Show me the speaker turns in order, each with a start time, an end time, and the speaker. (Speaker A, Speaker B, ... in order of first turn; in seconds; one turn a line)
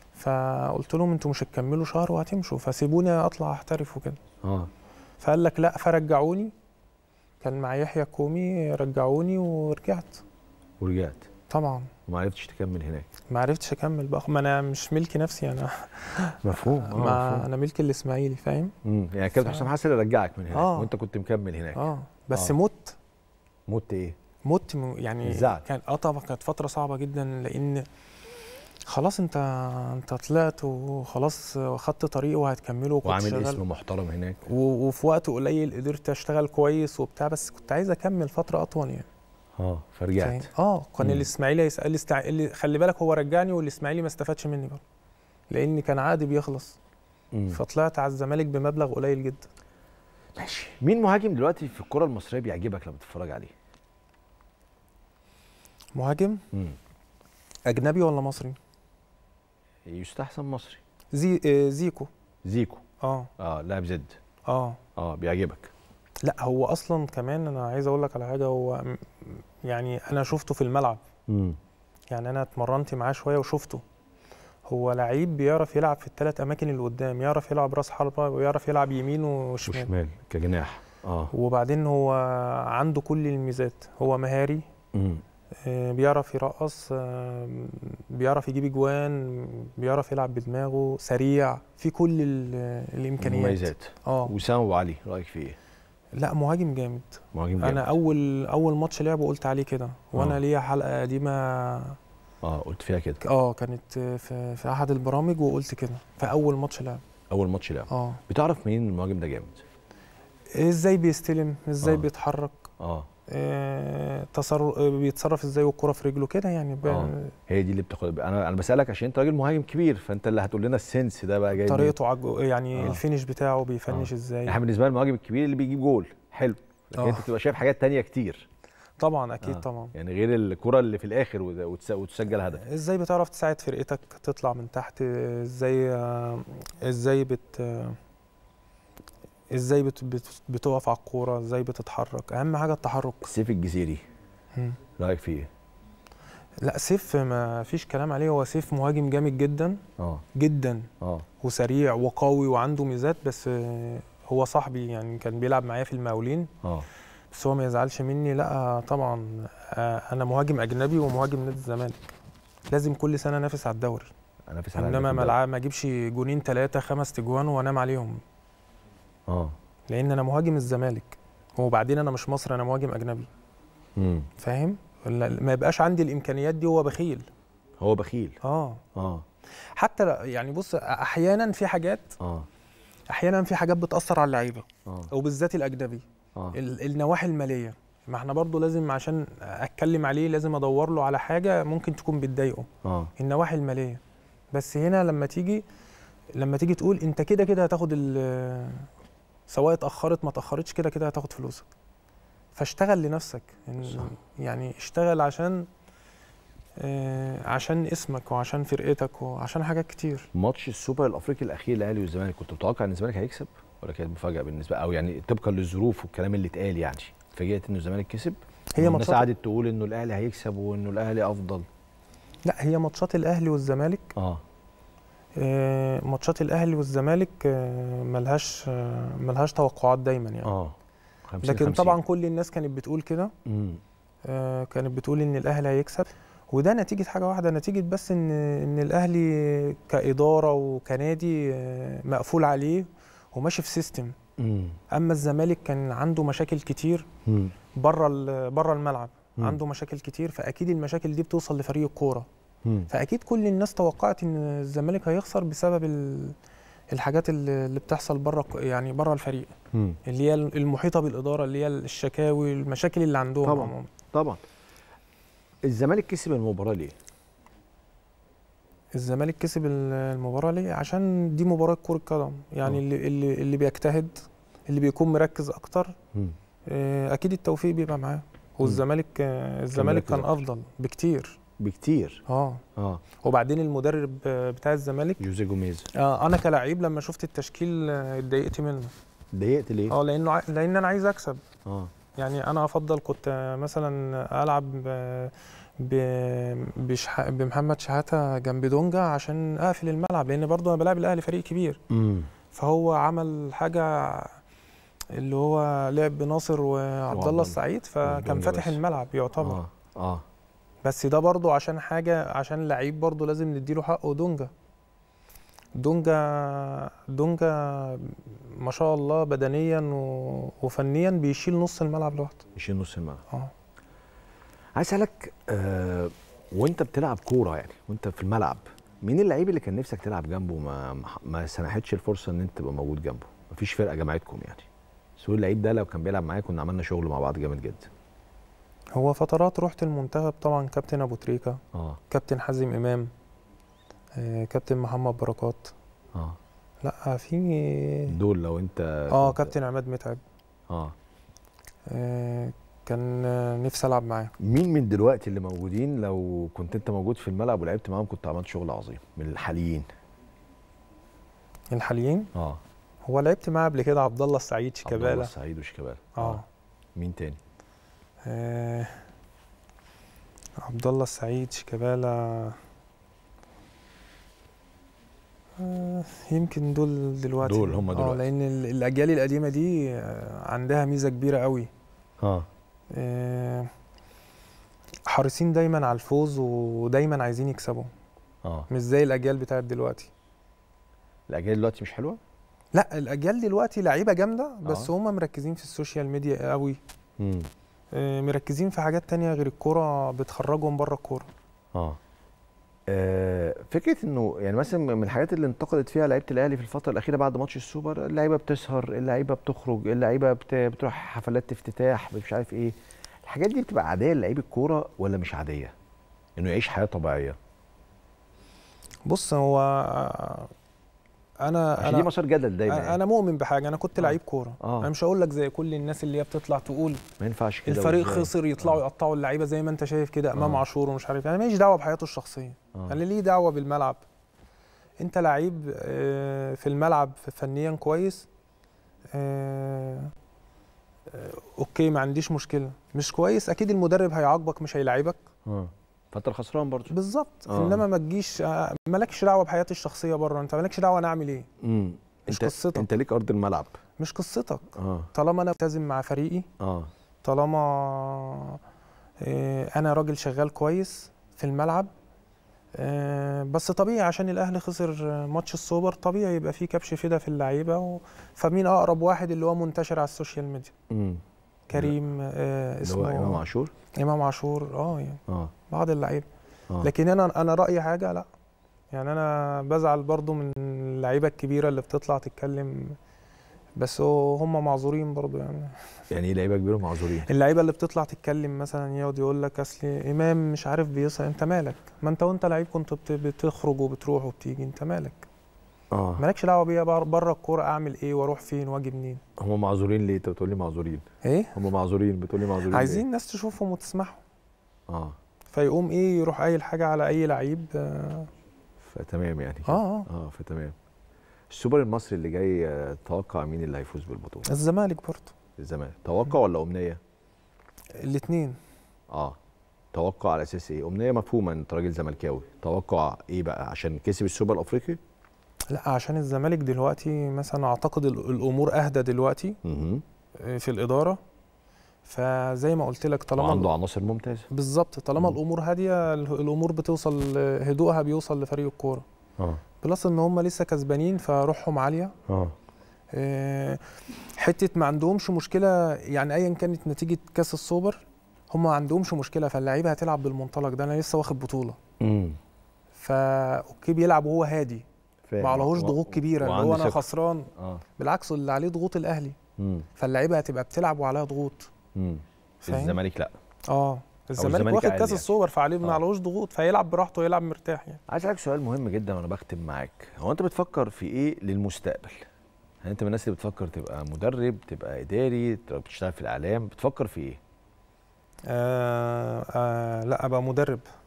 Speaker A: 0.2-4.2
Speaker B: 4.4-4.7
Speaker A: 5.2-6.5
Speaker A: 7.4-10.2
Speaker B: 10.8-11.3
Speaker A: 11.5-11.9
Speaker B: 12.1-13.1
Speaker A: 13.3-18.8
Speaker B: 16.4-17.5
Speaker B: 18.8-22.5
Speaker A: 20.5-20.9
Speaker A: 21.7-23.0
Speaker B: 23.7-24.2
Speaker A: 24.4-27.9
Speaker B: 25.2-25.6
Speaker A: 28.9-33.6
Speaker B: 33.0-34.4
Speaker A: 34.5-39.1
Speaker B: 39.6-40.5
Speaker A: 40.2-44.8
Speaker B: 41.0-41.3
Speaker A: 45.5-46.8
Speaker B: 47.3-47.6
Speaker A: 47.5-49.5
Speaker B: 50.4-53.5
Speaker A: 56.0-56.4
Speaker B: 56.5-56.8
Speaker A: 57.7-58.6
Speaker B: 59.9-60.8
Speaker A: 61.1-62.1
Speaker B: 62.5-62.8
Speaker A: 63.0-63.3
Speaker B: 63.4-64.2
Speaker A: 64.5-64.8
Speaker B: 65.0-65.7
Speaker A: 66.2-71.0
Speaker B: 71.3-71.6
Speaker A: 72.1-73.8
Speaker A: 74.7-79.9
Speaker B: 79.7-81.3
Speaker A: 81.3-84.7
Speaker B: 84.9-85.2
Speaker A: 85.6-94.3
Speaker B: 93.2-95.6
Speaker A: 96.2-102.0
Speaker B: 97.3-97.9
Speaker B: 100.1-100.4
Speaker B: 102.4-103.2
Speaker A: 103.2-107.0
Speaker B: 107.3-109.6
Speaker A: 107.9-108.2
Speaker A: 110.5-112.7
Speaker B: 112.8-113.1
Speaker A: 113.3-117.3
Speaker B: 116.8-122.0
Speaker A: 121.6-124.6
Speaker B: 122.8-123.0
Speaker B: 123.9-128.5
Speaker A: 127.0-127.3
Speaker A: 129.0-129.9
Speaker B: 129.4-132.6
Speaker A: 132.5-138.0
Speaker A: 139.5-143.3
Speaker B: 143.2-144.0
Speaker B: 145.0-145.5
Speaker A: 146.6-149.8
Speaker B: 150.0-150.2
Speaker A: 150.3-156.5
Speaker B: 151.0-151.3
Speaker A: 157.3-162.0
Speaker A: 162.7-164.1
Speaker B: 164.5-165.4
Speaker A: 164.8-168.2
Speaker B: 169.3-169.6
Speaker A: 169.9-173.3
Speaker B: 174.0-174.3
Speaker A: 174.4-177.2
Speaker B: 177.8-178.4
Speaker A: 178.4-178.8
Speaker B: 178.9-179.2
Speaker A: 179.8-182.2
Speaker B: 182.2-182.5
Speaker A: 183.1-194.0
Speaker B: 192.8-193.1
Speaker A: 194.5-195.6
Speaker A: 196.3-198.9
Speaker A: 199.5-201.7
Speaker A: 202.6-205.7
Speaker B: 203.8-204.1
Speaker A: 206.8-210.3
Speaker B: 210.3-221.6
Speaker A: 218.8-219.2
Speaker A: 222.4-224.1
Speaker B: 224.2-224.4
Speaker A: 225.4-230.6
Speaker B: 230.5-230.8
Speaker B: 231.3-232.0
Speaker A: 231.4-233.3
Speaker B: 233.5-233.8
Speaker A: 234.2-244.2
Speaker B: 244.4-244.8
Speaker A: 244.9-247.1
Speaker B: 247.3-247.5
Speaker A: 247.8-252.3
Speaker B: 252.6-252.9
Speaker A: 252.9-256.4
Speaker A: 256.9-259.5
Speaker B: 259.7-260.0
Speaker A: 260.1-263.9
Speaker B: 263.4-264.4
Speaker B: 265.6-266.9
Speaker A: 268.9-276.0
Speaker A: 276.7-281.4
Speaker B: 279.7-280.4
Speaker B: 281.6-282.2
Speaker A: 282.3-282.6
Speaker B: 282.8-283.0
Speaker A: 283.2-285.2
Speaker B: 285.2-285.9
Speaker A: 285.9-288.9
Speaker B: 289.3-290.0
Speaker A: 289.9-291.4
Speaker B: 291.7-291.9
Speaker A: 292.2-301.8
Speaker B: 301.9-302.3
Speaker A: 302.5-304.4
Speaker A: 305.1-309.6
Speaker B: 307.1-308.8
Speaker B: 309.4-310.2
Speaker A: 310.8-314.5
Speaker A: 315.8-322.4
Speaker B: 322.6-323.2
Speaker B: 324.8-337.9
Speaker A: 338.9-343.1
Speaker B: 341.7-342.0
Speaker A: 344.1-345.7
Speaker A: 346.8-348.2
Speaker B: 348.1-349.5
Speaker A: 349.1-350.2
Speaker B: 350.7-350.9
Speaker A: 351.9-354.3
Speaker B: 354.4-359.9
Speaker A: 361.7-362.3
Speaker B: 362.4-362.6
Speaker A: 363.1-365.3
Speaker B: 364.9-366.4
Speaker A: 366.2-366.4
Speaker B: 367.0-367.4
Speaker A: 368.3-369.0
Speaker A: 370.6-372.6
Speaker A: 375.6-381.7
Speaker B: 377.4-378.2
Speaker B: 382.2-382.5
Speaker A: 382.9-383.7
Speaker A: 385.1-387.9
Speaker A: 388.7-390.1
Speaker B: 391.3-392.2
Speaker A: 392.7-396.8
Speaker B: 394.6-394.9
Speaker B: 397.2-397.5
Speaker A: 397.9-401.3
Speaker B: 401.7-402.0
Speaker B: 402.9-415.7
Speaker B: 416.4-417.4
Speaker A: 419.1-420.5
Speaker A: 421.4-422.1
Speaker B: 421.8-423.0
Speaker A: 422.7-427.0
Speaker B: 424.0-424.9
Speaker B: 427.2-428.8
Speaker A: 427.7-434.0
Speaker B: 430.4-430.6
Speaker B: 432.7-433.0
Speaker A: 435.0-438.3
Speaker A: 439.1-440.1
Speaker A: 441.1-445.2
Speaker B: 445.5-446.9
Speaker A: 446.9-451.5
Speaker B: 447.5-447.8
Speaker B: 451.6-453.7
Speaker A: 452.3-452.9
Speaker A: 454.0-456.5
Speaker B: 454.8-455.1
Speaker B: 456.6-456.9
Speaker A: 457.2-458.6
Speaker A: 459.2-461.9
Speaker A: 462.8-470.7
Speaker B: 470.9-471.2
Speaker A: 471.7-473.4
Speaker B: 472.8-473.7
Speaker A: 474.0-476.3
Speaker B: 475.3-475.5
Speaker A: 476.8-478.3
Speaker A: 478.9-483.0
Speaker A: 483.8-485.9
Speaker B: 486.1-487.3
Speaker A: 487.2-495.3
Speaker B: 495.9-496.2
Speaker A: 496.2-499.2
Speaker B: 499.4-503.0
Speaker A: 501.2-501.6
Speaker A: 502.7-504.2
Speaker B: 504.9-505.2
Speaker A: 505.5-508.3
Speaker B: 508.8-510.8
Speaker A: 509.7-510.1
Speaker B: 511.5-514.5
Speaker A: 514.5-515.3
Speaker B: 515.6-517.0
Speaker A: 517.9-518.6
Speaker B: 519.1-519.4
Speaker B: 519.9-525.0
Speaker A: 525.7-529.6
Speaker B: 529.6-530.0
Speaker A: 530.4-531.2
Speaker A: 532.0-533.7
Speaker B: 533.4-534.5
Speaker A: 534.5-539.0
Speaker A: 539.8-542.2
Speaker B: 542.3-542.5
Speaker A: 543.1-551.8
Speaker B: 552.0-552.4
Speaker A: 553.0-554.8
Speaker B: 555.3-557.8
Speaker A: 555.4-559.4
Speaker B: 559.6-559.9
Speaker A: 560.0-561.7
Speaker B: 562.0-563.3
Speaker A: 562.6-563.0
Speaker A: 563.7-568.0
Speaker B: 564.4-565.3
Speaker B: 568.1-572.3
Speaker B: 572.8-577.4
Speaker A: 578.5-580.9